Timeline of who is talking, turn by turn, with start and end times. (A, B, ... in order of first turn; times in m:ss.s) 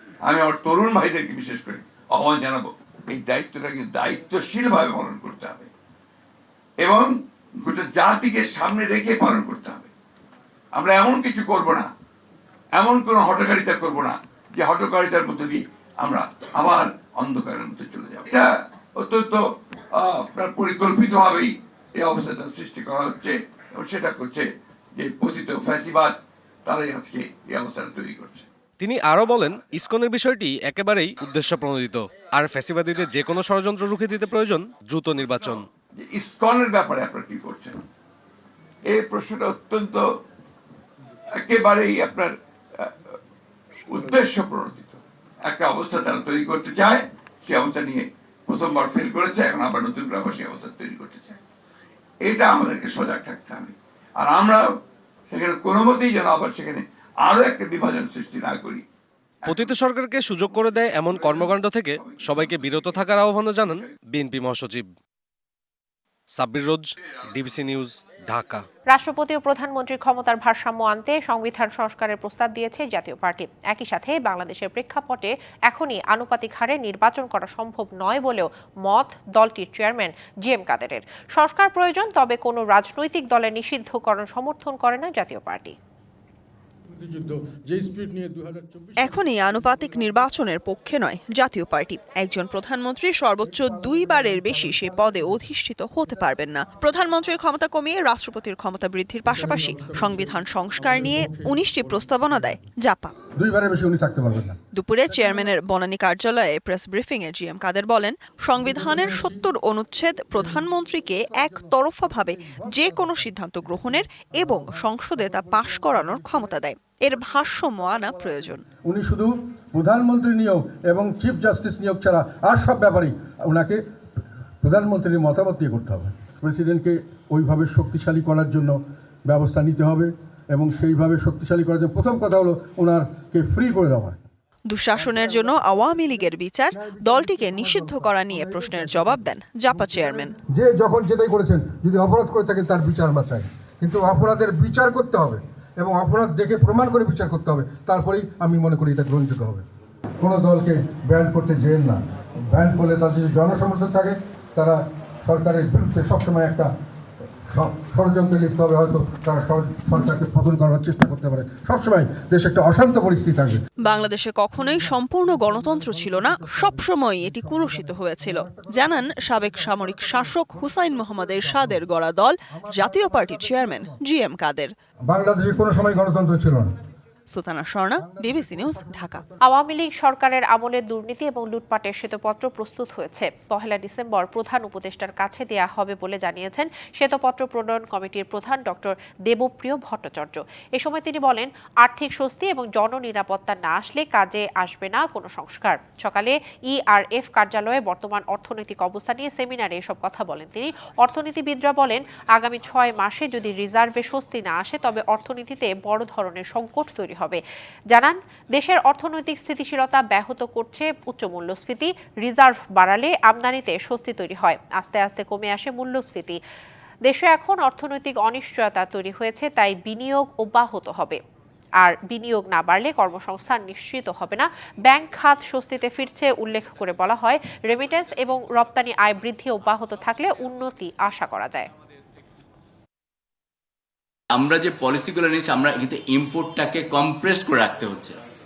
0:00.2-0:05.7 A
0:06.8-0:09.9 A
0:10.8-0:11.9 A
0:12.8-0:28.4 A
0:28.8-0:35.6 B
0:36.0-0:37.8 A
0:38.9-0:40.0 A
0:41.4-0:42.9 A
0:43.9-0:51.4 A
0:52.2-0:54.6 A
0:55.3-0:58.8 A
0:59.5-1:04.9 B
1:00.9-1:03.0 A
1:06.4-1:08.6 B
1:08.9-1:25.8 C
1:26.9-1:30.1 D
1:29.0-1:43.1 E
1:33.4-1:35.4 D
1:39.3-1:42.0 D
1:43.4-1:44.6 D
1:44.7-1:58.6 E
1:45.1-1:45.4 D
1:48.5-1:49.4 D
1:51.4-1:51.7 D
1:52.2-1:53.2 D
1:55.2-1:56.5 D
1:57.9-2:03.8 D
2:04.6-2:14.2 D
2:14.7-2:20.3 E
2:14.9-2:15.6 D
2:16.8-2:19.2 D
2:19.7-2:29.6 D
2:30.2-2:32.0 D
2:32.5-2:36.7 D
2:37.5-2:43.6 D
2:43.8-2:54.7 E
2:44.8-2:50.4 D
2:51.2-2:51.8 D
2:52.5-2:53.9 D
2:55.1-2:56.7 D
2:57.3-2:59.2 E
2:58.0-2:59.4 D
2:59.4-3:27.4 C
3:27.9-3:36.4 C
3:37.0-3:41.2 C
3:41.8-3:51.7 C
3:54.3-3:58.2 F